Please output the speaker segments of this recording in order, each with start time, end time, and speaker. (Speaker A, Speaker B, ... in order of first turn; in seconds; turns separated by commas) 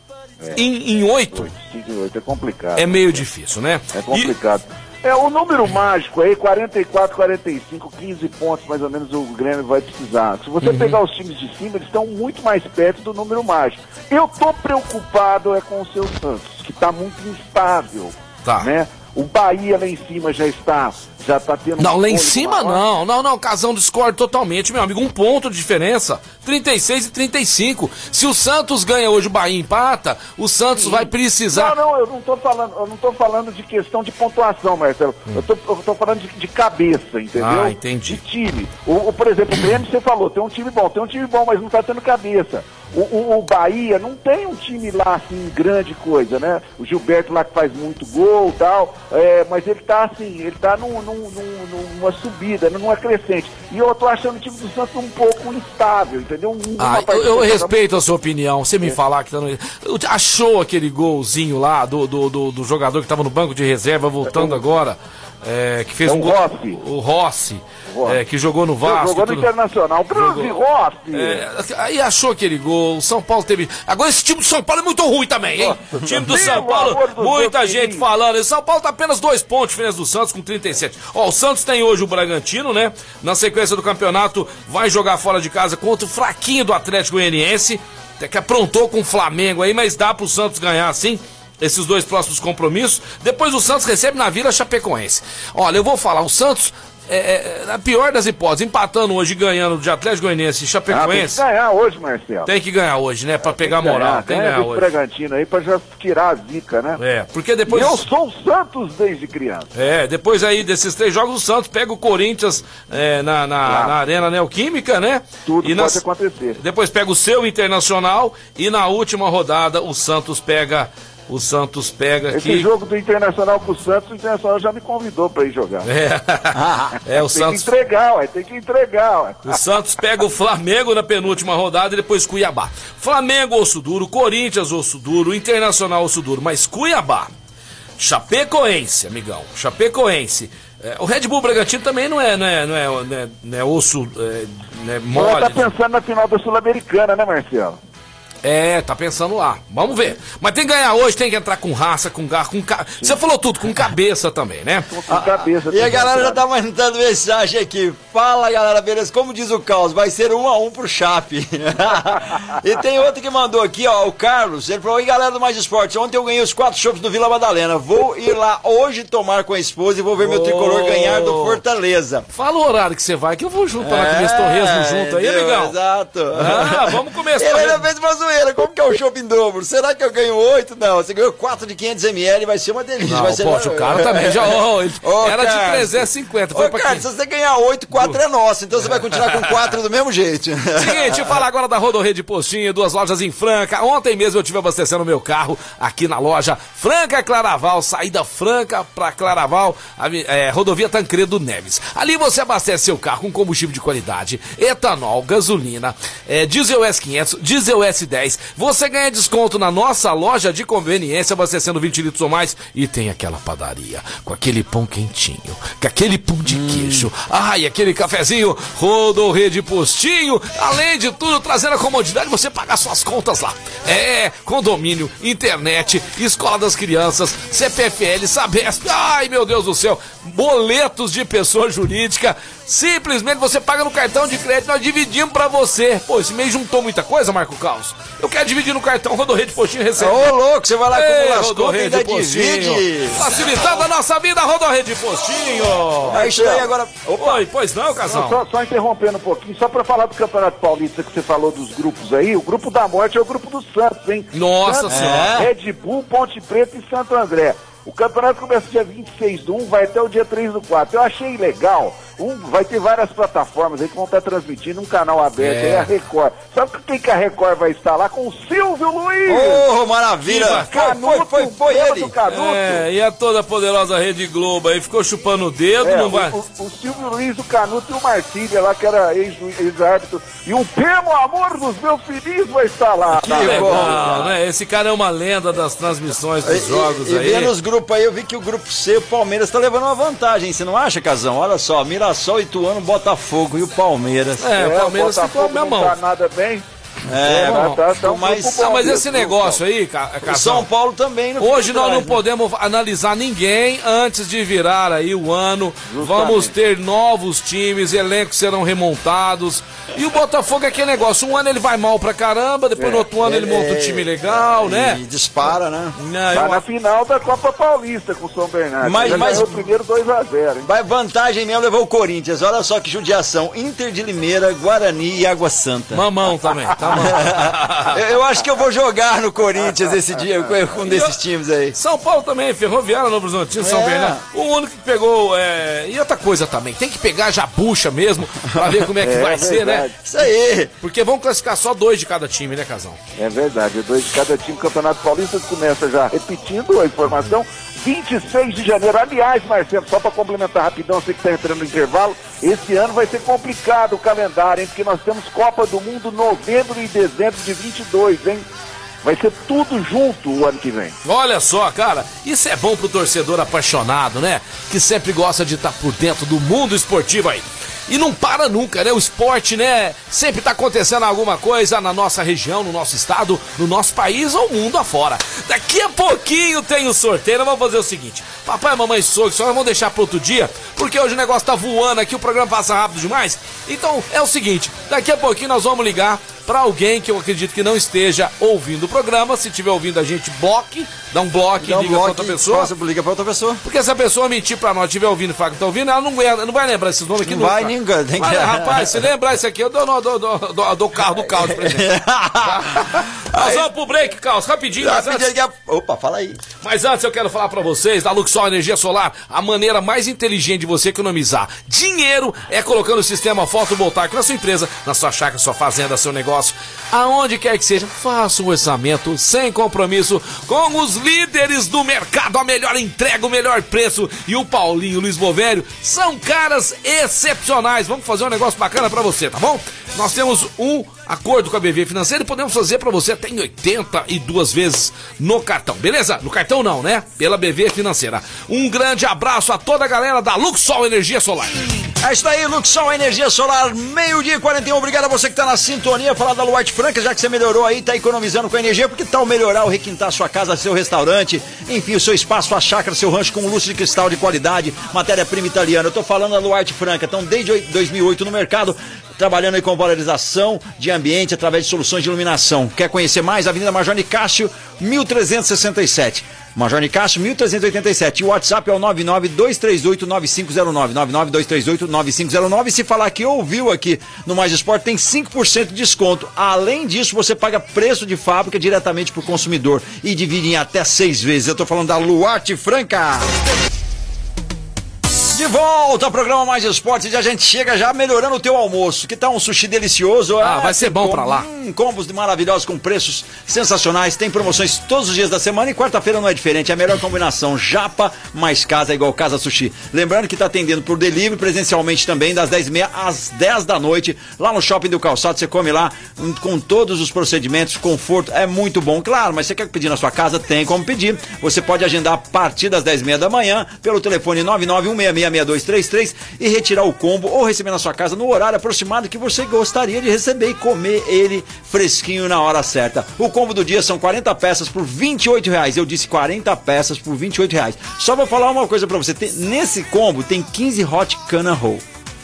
Speaker A: 0.5-1.5, Speaker B: 1.3-3.2, Speaker A: 2.7-4.3, Speaker B: 3.9-22.8, Speaker A: 10.6-11.0, Speaker A: 18.4-18.7, Speaker A: 21.8-31.7, Speaker B: 30.8-57.8, Speaker A: 37.4-38.2, Speaker A: 56.8-69.5, Speaker B: 64.2-64.6, Speaker B: 66.0-66.8, Speaker B: 67.9-68.2, Speaker B: 68.8-71.4, Speaker A: 70.1-70.5, Speaker A: 71.1-101.4, Speaker B: 75.6-78.0, Speaker B: 100.9-102.5, Speaker A: 102.5-104.9, Speaker B: 103.5-107.0, Speaker A: 107.0-108.0, Speaker B: 107.7-109.7, Speaker A: 109.7-116.0, Speaker B: 113.7-114.0, Speaker B: 115.5-116.6, Speaker A: 116.6-122.7, Speaker B: 122.3-125.9, Speaker A: 125.8-127.7, Speaker C: 126.5-127.0, Speaker B: 127.1-129.6, Speaker A: 129.4-137.3, Speaker A: 138.0-145.7, Speaker B: 145.1-147.8, Speaker A: 148.4-154.9, Speaker B: 154.9-156.4, Speaker C: 155.1-172.2, Speaker A: 170.2-171.6, Speaker A: 172.3-175.7, Speaker C: 173.8-191.3, Speaker A: 176.3-177.8, Speaker A: 183.1-187.0, Speaker A: 190.8-240.2, Speaker C: 216.5-217.1, Speaker C: 240.0-243.2, Speaker A: 240.9-246.2, Speaker B: 246.1-246.7, Speaker C: 246.1-247.4, Speaker A: 247.2-248.4, Speaker B: 248.1-269.6, Speaker A: 254.3-255.3, Speaker C: 254.9-255.5, Speaker A: 265.4-265.9, Speaker C: 269.3-272.1, Speaker A: 270.2-270.8, Speaker B: 270.4-272.8, Speaker A: 272.3-276.4, Speaker B: 275.8-284.3, Speaker C: 283.1-284.3, Speaker A: 283.2-287.5, Speaker C: 286.4-294.4, Speaker A: 294.4-296.0, Speaker B: 294.5-296.6, Speaker C: 297.1-299.0, Speaker B: 297.2-299.6, Speaker A: 297.2-297.8, Speaker A: 298.5-300.7, Speaker C: 300.2-302.2, Speaker A: 301.4-315.0, Speaker B: 305.9-306.5, Speaker B: 312.8-313.1, Speaker C: 313.1-315.9, Speaker A: 316.0-316.6, Speaker B: 316.3-320.7, Speaker C: 318.8-319.6, Speaker A: 319.1-319.4, Speaker C: 320.6-326.0, Speaker A: 325.9-328.0, Speaker C: 327.1-331.8, Speaker A: 330.8-331.1, Speaker A: 331.7-339.9, Speaker C: 333.6-334.2, Speaker B: 339.0-340.0, Speaker C: 340.0-340.7, Speaker A: 340.8-343.0, Speaker B: 343.2-358.4, Speaker B: 359.0-360.9, Speaker A: 361.0-392.7, Speaker C: 391.6-393.6, Speaker A: 393.6-405.3, Speaker C: 397.2-399.0, Speaker C: 401.1-403.7, Speaker C: 404.8-406.4, Speaker A: 406.6-441.6, Speaker C: 442.0-483.3, Speaker C: 485.3-531.8, Speaker A: 490.4-491.5